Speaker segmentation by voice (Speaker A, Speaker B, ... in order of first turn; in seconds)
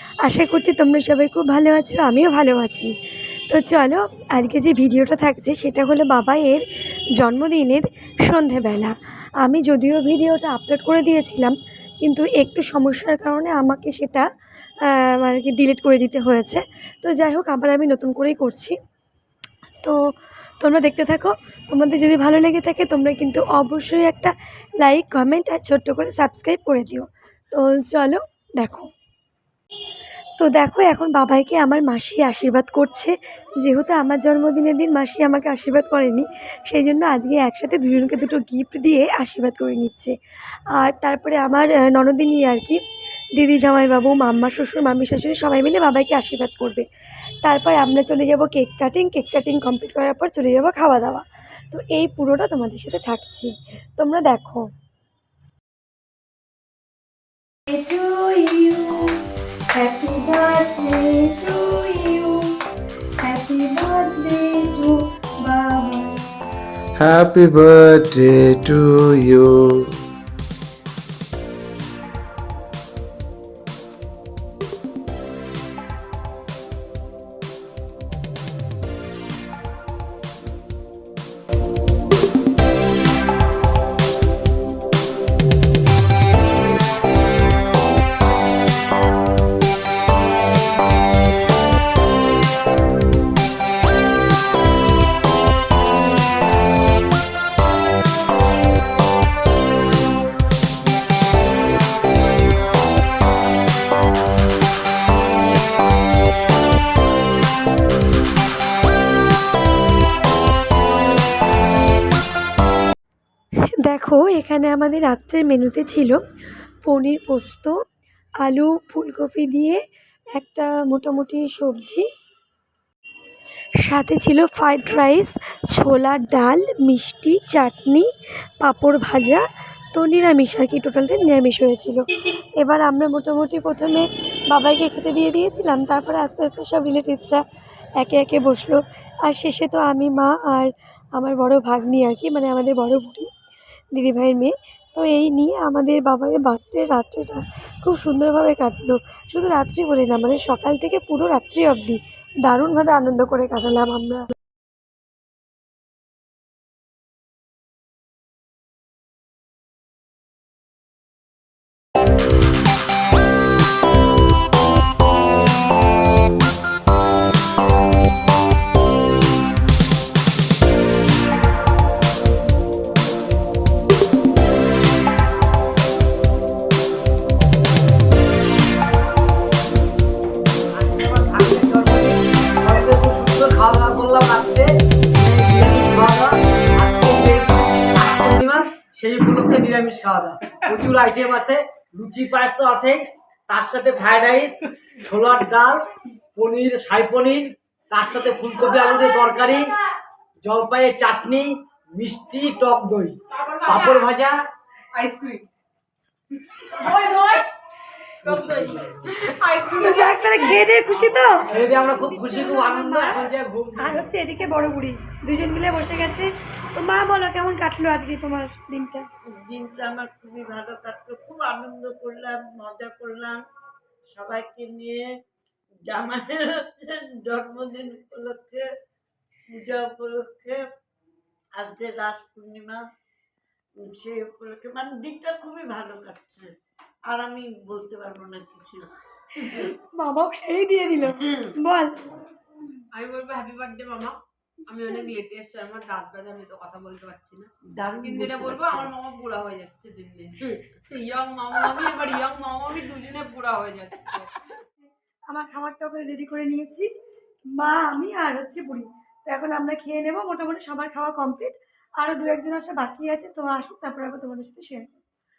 Speaker A: 0.2-2.9, 3.5-6.7, 7.2-14.3, 14.9-18.8, 20.6-28.9, 30.4-40.1, 40.8-42.8, 43.4-46.9, 47.4-54.7, 57.7-59.2, 59.8-62.5, 63.2-66.2, 113.8-116.2, 116.8-117.8, 118.4-119.8, 120.3-122.1, 123.8-128.1, 128.6-132.0, 132.6-137.4, 138.0-143.3, 143.9-154.3, 209.8-219.1, 239.6-242.1, 255.3-256.9, 257.6-265.0
Speaker B: 67.0-70.0
Speaker C: 180.7-199.7, 200.4-204.4, 208.2-209.0, 211.5-214.1
Speaker D: 203.6-204.1, 204.9-205.4, 206.5-207.5, 208.2-210.6, 242.9-244.2, 244.7-247.5, 248.0-254.4
Speaker E: 219.3-223.4, 224.1-225.1, 225.9-228.7, 229.5-230.7, 231.6-232.8, 233.8-236.5, 237.1-238.9, 247.8-248.9